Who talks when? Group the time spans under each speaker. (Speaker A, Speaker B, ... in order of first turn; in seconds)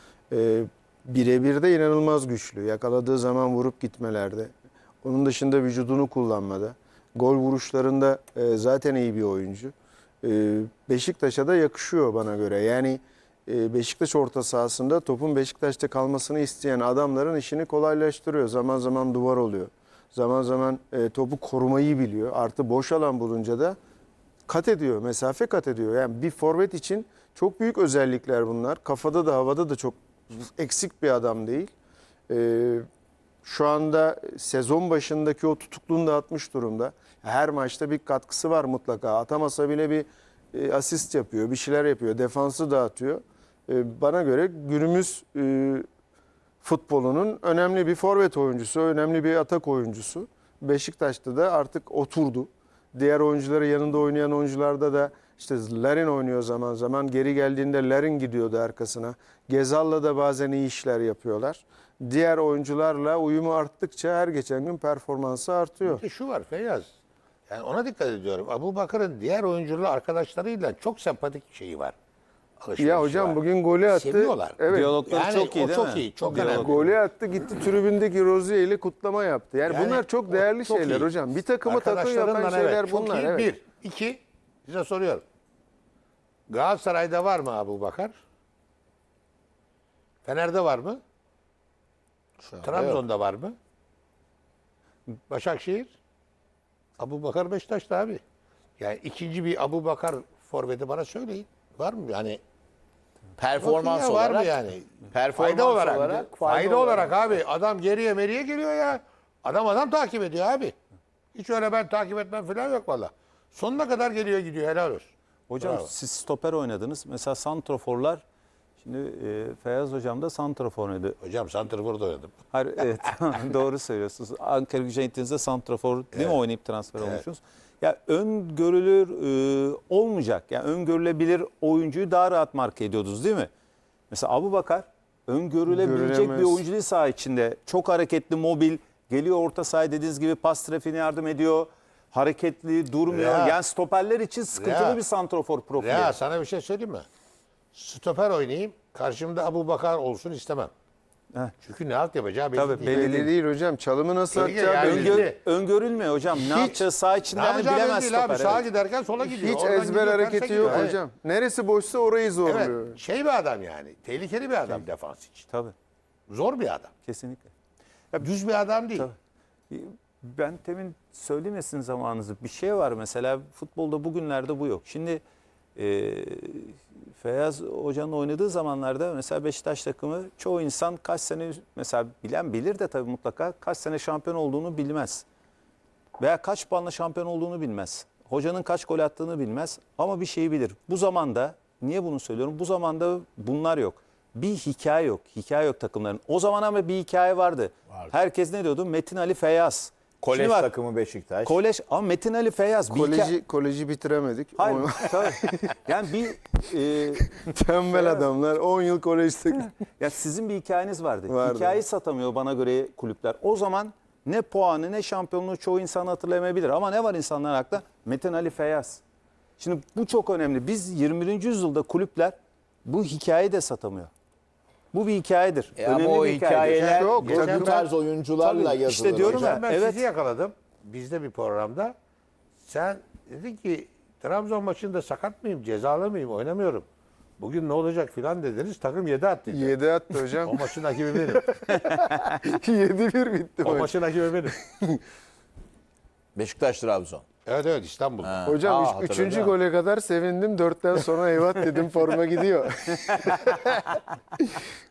Speaker A: 0.3-23.8, 24.5-31.7, 32.3-32.9, 33.4-45.9, 46.6-66.0, 72.8-75.0, 76.3-83.5, 135.7-136.6, 152.8-155.3, 159.2-163.0, 202.9-205.7, 207.4-209.7, 211.3-211.8, 226.8-227.8, 239.5-245.0, 248.4-254.5
Speaker B: 65.8-66.9, 67.5-71.9, 72.6-73.4, 73.9-76.9, 79.7-85.2, 86.5-88.1, 90.2-91.0, 92.6-93.5, 95.3-95.9, 97.0-98.2, 98.8-102.4, 103.6-110.7, 111.3-115.9, 121.2-122.4, 126.1-126.4, 127.0-127.2, 143.1-143.6, 144.5-145.0, 145.8-147.0, 147.7-150.7, 151.6-153.1, 154.3-155.4, 156.3-160.9, 162.4-165.5, 166.3-166.9, 168.2-169.1, 226.6-227.8, 229.0-231.9, 232.6-236.8, 237.4-239.7, 240.4-241.6, 243.6-244.6, 247.4-248.5
Speaker C: 74.7-76.8, 115.5-118.2, 118.8-121.2, 122.5-133.5, 134.1-146.1, 152.6-153.3, 154.7-158.6, 160.6-160.9, 167.0-167.5, 169.7-175.2, 175.8-185.2, 186.2-200.7, 201.4-203.3, 204.6-208.3, 209.8-219.0, 219.6-224.1, 224.9-227.8, 228.4-230.0, 241.8-242.2
Speaker D: 92.4-93.0, 103.4-104.5, 105.1-107.2, 200.2-201.6, 225.8-229.6, 246.3-247.2, 248.2-249.5